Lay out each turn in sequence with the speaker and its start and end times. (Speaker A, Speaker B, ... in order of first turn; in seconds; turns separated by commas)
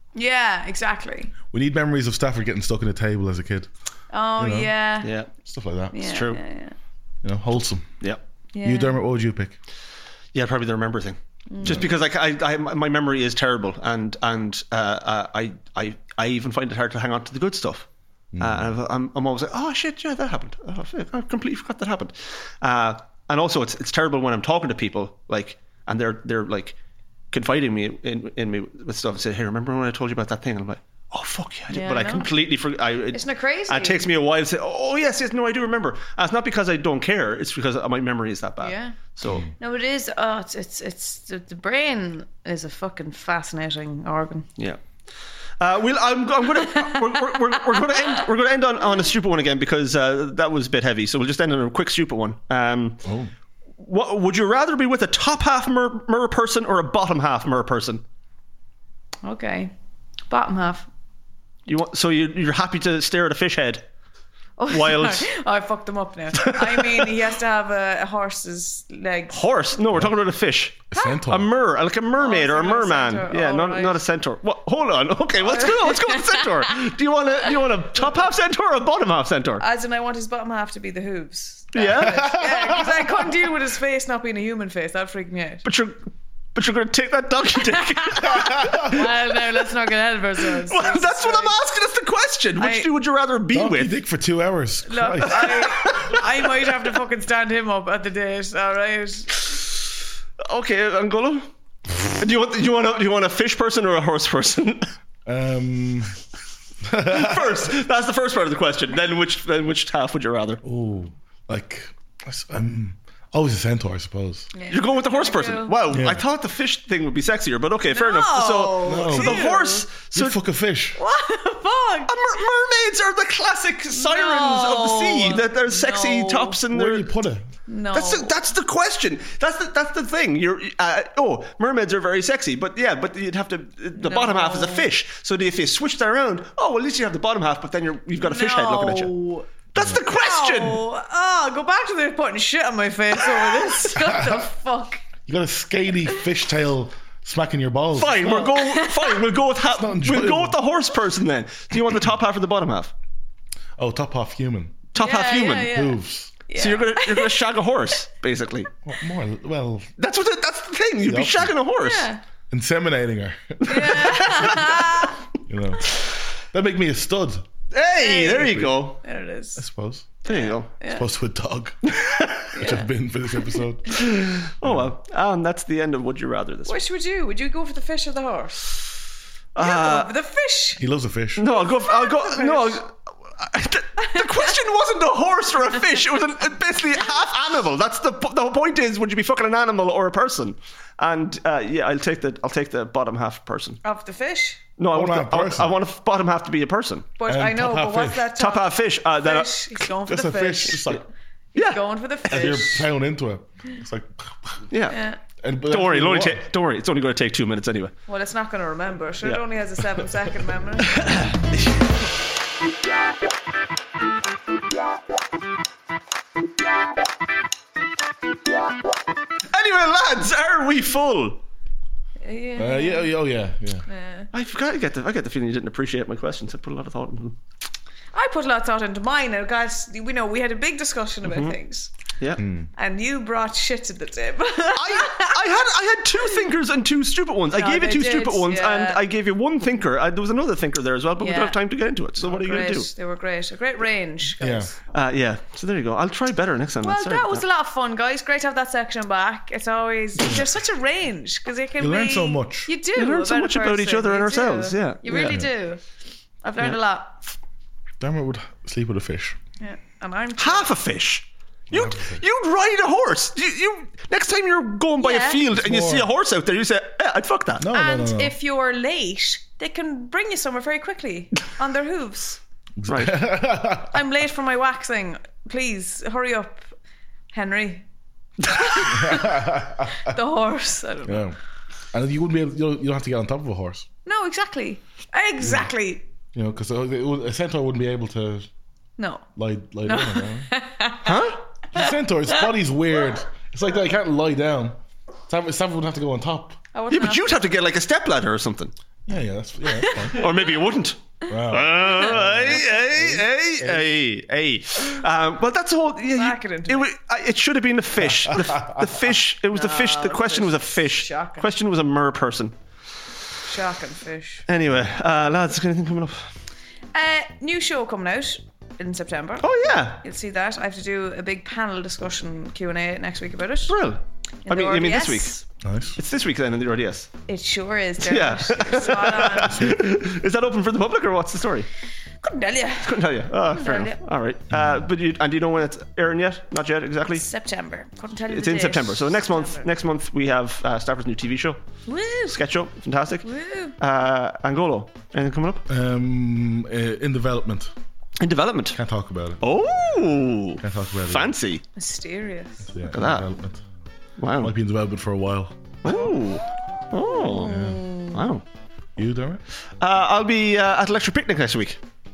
Speaker A: 0.1-1.3, Speaker B: 1.5-3.7, Speaker A: 4.1-5.1, Speaker B: 4.4-4.7, Speaker C: 5.0-5.3, Speaker B: 5.4-6.1, Speaker A: 5.9-6.8, Speaker C: 6.0-6.4, Speaker B: 7.2-7.9, Speaker A: 8.5-9.0, Speaker B: 8.6-9.6, Speaker C: 10.3-17.9, Speaker A: 11.5-11.9, Speaker B: 11.6-11.9, Speaker B: 18.3-18.7, Speaker C: 18.4-26.8, Speaker C: 27.3-39.5, Speaker A: 31.7-32.3, Speaker A: 33.1-34.1, Speaker A: 38.6-39.0, Speaker A: 39.6-44.5, Speaker C: 45.6-53.0, Speaker A: 46.8-48.2, Speaker B: 53.0-53.3, Speaker C: 53.8-58.0, Speaker A: 59.2-59.7, Speaker A: 60.3-60.9, Speaker C: 61.6-63.9, Speaker A: 64.6-69.4, Speaker C: 64.7-65.3, Speaker C: 66.3-67.1, Speaker C: 69.3-79.6, Speaker B: 70.9-71.5, Speaker A: 70.9-71.2, Speaker A: 72.2-74.0, Speaker A: 75.4-76.7, Speaker A: 79.6-85.6, Speaker C: 81.7-82.4, Speaker B: 81.8-83.0, Speaker C: 85.6-89.1, Speaker A: 87.6-91.5, Speaker B: 88.3-88.9, Speaker C: 90.5-94.0, Speaker A: 92.6-92.9, Speaker B: 93.5-96.0, Speaker A: 94.8-99.5, Speaker C: 95.4-96.3, Speaker C: 100.4-101.5, Speaker C: 102.0-104.9, Speaker B: 105.2-106.2, Speaker B: 106.8-107.7, Speaker C: 107.1-110.6, Speaker B: 110.6-114.5, Speaker A: 114.5-115.8, Speaker C: 114.7-120.3, Speaker B: 115.9-116.2, Speaker A: 117.9-119.8, Speaker B: 118.8-119.5, Speaker B: 120.1-121.0, Speaker A: 121.0-122.5, Speaker C: 122.1-127.1, Speaker A: 123.9-126.6, Speaker B: 126.7-127.5, Speaker A: 127.7-128.3, Speaker C: 127.9-139.1, Speaker A: 134.0-134.9, Speaker A: 138.2-145.0, Speaker C: 139.7-140.8, Speaker B: 143.9-144.5, Speaker B: 145.2-148.3, Speaker C: 147.9-152.9, Speaker A: 148.2-149.3, Speaker B: 149.6-150.6, Speaker B: 153.8-154.8, Speaker C: 154.9-155.7, Speaker A: 155.0-157.3, Speaker B: 155.7-156.3, Speaker C: 156.6-158.7, Speaker B: 158.8-159.9, Speaker C: 160.0-162.1, Speaker B: 161.0-161.5, Speaker A: 161.8-162.2, Speaker B: 162.5-164.0, Speaker A: 163.6-165.2, Speaker C: 163.7-165.1, Speaker B: 165.4-165.9, Speaker B: 166.5-167.5, Speaker C: 167.7-169.0, Speaker A: 167.9-169.6, Speaker B: 168.4-168.7, Speaker B: 169.6-170.2, Speaker C: 170.2-170.7, Speaker A: 170.2-171.1, Speaker B: 170.9-171.9, Speaker C: 171.9-172.5, Speaker A: 172.5-172.9, Speaker B: 172.5-174.9, Speaker C: 173.9-176.8, Speaker A: 176.7-178.7, Speaker C: 179.5-180.1, Speaker A: 179.6-180.8, Speaker B: 180.8-181.4, Speaker C: 181.4-193.8, Speaker A: 181.4-182.8, Speaker A: 184.0-184.5, Speaker A: 193.8-194.6, Speaker C: 194.8-197.1, Speaker B: 194.9-195.7, Speaker A: 197.2-202.9, Speaker B: 197.3-198.3, Speaker C: 198.3-199.5, Speaker B: 200.1-201.0, Speaker C: 201.6-201.8, Speaker B: 202.3-204.7, Speaker C: 204.7-205.0, Speaker A: 204.9-205.2, Speaker B: 205.4-206.5, Speaker C: 205.6-207.9, Speaker A: 208.1-211.3, Speaker C: 210.9-211.3, Speaker C: 219.5-221.4, Speaker A: 222.2-223.1, Speaker B: 222.6-223.8, Speaker A: 223.9-224.3, Speaker C: 224.3-227.4, Speaker A: 228.1-231.9, Speaker C: 231.2-231.6, Speaker B: 232.4-232.7, Speaker A: 232.8-235.4, Speaker C: 234.8-242.9, Speaker A: 237.5-239.0, Speaker A: 241.2-241.6, Speaker A: 242.2-244.8, Speaker B: 244.4-244.7, Speaker C: 244.9-247.4, Speaker A: 246.8-255.8, Speaker B: 250.2-250.5, Speaker B: 251.8-252.7, Speaker C: 252.9-255.3, Speaker B: 255.1-255.5, Speaker A: 256.4-257.3, Speaker B: 258.0-259.4, Speaker A: 259.6-260.7, Speaker C: 260.4-267.6, Speaker B: 261.7-262.2, Speaker A: 265.0-265.4, Speaker B: 265.5-266.1, Speaker B: 267.6-268.3, Speaker A: 267.7-272.4, Speaker B: 272.8-274.0, Speaker C: 272.9-273.2, Speaker A: 273.9-276.7, Speaker A: 277.3-277.9, Speaker A: 278.4-281.3, Speaker B: 278.9-280.2, Speaker B: 281.1-281.4, Speaker B: 281.9-283.9, Speaker A: 284.0-286.1, Speaker B: 285.4-285.7, Speaker B: 286.3-288.5, Speaker A: 289.0-289.2, Speaker B: 289.4-290.5, Speaker A: 289.8-291.8, Speaker C: 291.0-291.4, Speaker B: 291.7-294.8, Speaker B: 295.3-296.6, Speaker A: 296.7-297.6, Speaker C: 296.9-298.7, Speaker B: 299.1-300.3, Speaker A: 299.7-300.3, Speaker C: 300.1-312.5, Speaker B: 301.3-303.9, Speaker A: 306.1-306.9, Speaker B: 308.3-308.8, Speaker A: 309.5-311.5, Speaker A: 313.4-314.4, Speaker C: 314.5-316.3, Speaker A: 316.9-323.8, Speaker C: 319.4-320.0, Speaker C: 323.7-325.4, Speaker A: 324.4-325.4, Speaker B: 325.6-326.0, Speaker C: 326.0-327.1, Speaker A: 327.3-329.8, Speaker C: 328.0-331.7, Speaker A: 332.2-334.0, Speaker C: 332.8-337.2, Speaker B: 334.5-334.9, Speaker A: 337.1-339.7, Speaker C: 338.3-341.6, Speaker A: 341.9-342.4, Speaker C: 342.3-345.7, Speaker A: 343.2-343.8, Speaker B: 345.7-347.7, Speaker C: 348.2-348.8, Speaker B: 348.7-349.4, Speaker C: 349.4-351.6, Speaker B: 350.6-351.3, Speaker A: 351.8-352.7, Speaker B: 352.7-353.6, Speaker C: 352.9-353.3, Speaker C: 354.2-354.5, Speaker B: 354.4-355.8, Speaker C: 355.8-358.4, Speaker A: 355.9-356.1, Speaker A: 357.0-358.2, Speaker B: 357.4-357.9, Speaker B: 359.0-359.4, Speaker C: 359.8-361.8